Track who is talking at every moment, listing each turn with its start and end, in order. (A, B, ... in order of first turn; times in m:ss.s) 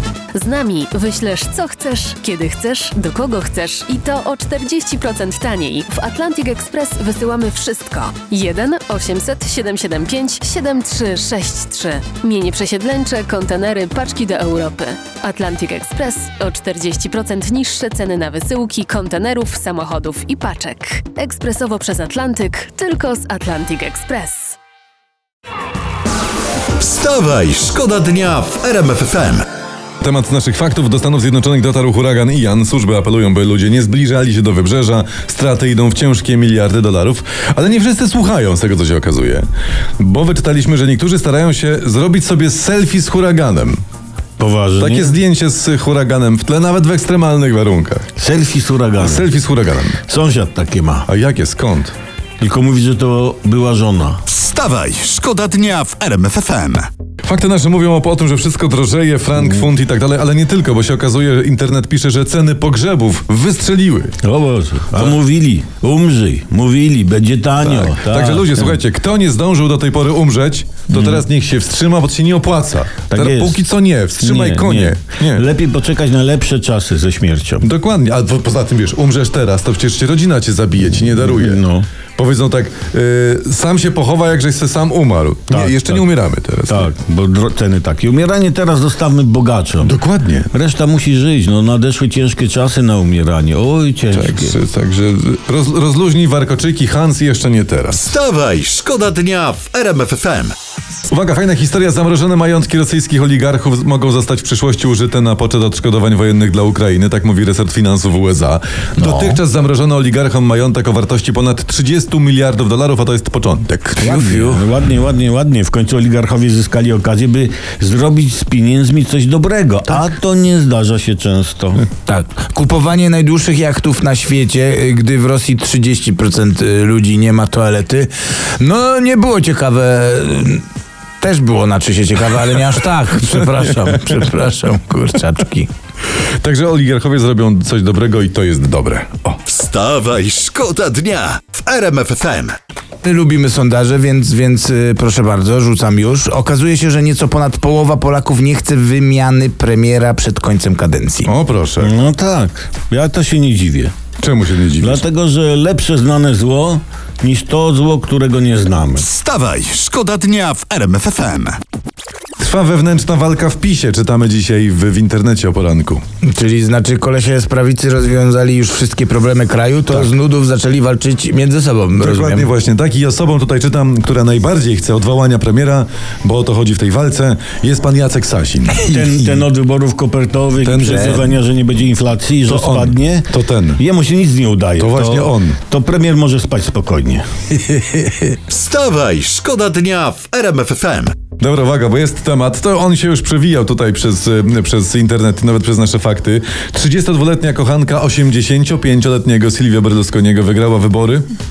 0:00.3-0:24.6 A
0:26.8-0:29.4 B
0:30.0-0:39.5 C
0:40.0-0:43.8 C
0:44.4-0:45.2 D
0:44.8-0:48.1 C
0:48.2-0:49.3 D
0:49.0-0:50.0 C
0:50.0-0:51.1 D
0:51.1-0:51.9 C
0:52.4-0:54.2 D
0:54.3-0:56.9 B
0:57.2-1:04.2 C
0:59.4-0:59.7 D
1:04.2-1:08.8 D
1:07.6-1:15.4 C
1:11.0-1:11.2 D
1:13.1-1:13.6 D
1:14.2-1:17.7 D
1:17.6-1:21.6 C
1:21.2-1:21.9 D
1:22.2-1:26.9 C
1:25.5-1:26.1 D
1:26.7-1:30.0 D
1:29.8-1:30.5 C
1:30.5-1:34.6 D
1:34.1-1:38.1 C
1:38.1-1:40.5 B
1:41.1-1:54.2 C
1:49.0-1:49.3 E
1:54.0-1:54.6 E
1:54.0-2:01.8 D
2:02.0-2:10.6 E
2:11.2-2:15.7 E
2:16.4-2:19.4 C
2:19.5-2:22.6 B
2:23.0-2:31.3 E
2:31.2-2:31.9 C
2:31.8-2:33.9 D
2:34.2-2:35.0 C
2:34.8-2:39.1 D
2:39.0-2:41.6 B
2:42.4-2:46.0 C
2:46.2-2:52.5 E
2:52.0-2:58.8 C
2:58.8-2:59.1 E
2:58.8-3:07.2 D
3:00.6-3:01.3 C
3:02.5-3:03.8 C
3:04.8-3:05.6 C
3:08.5-3:11.2 B
3:11.3-3:21.3 C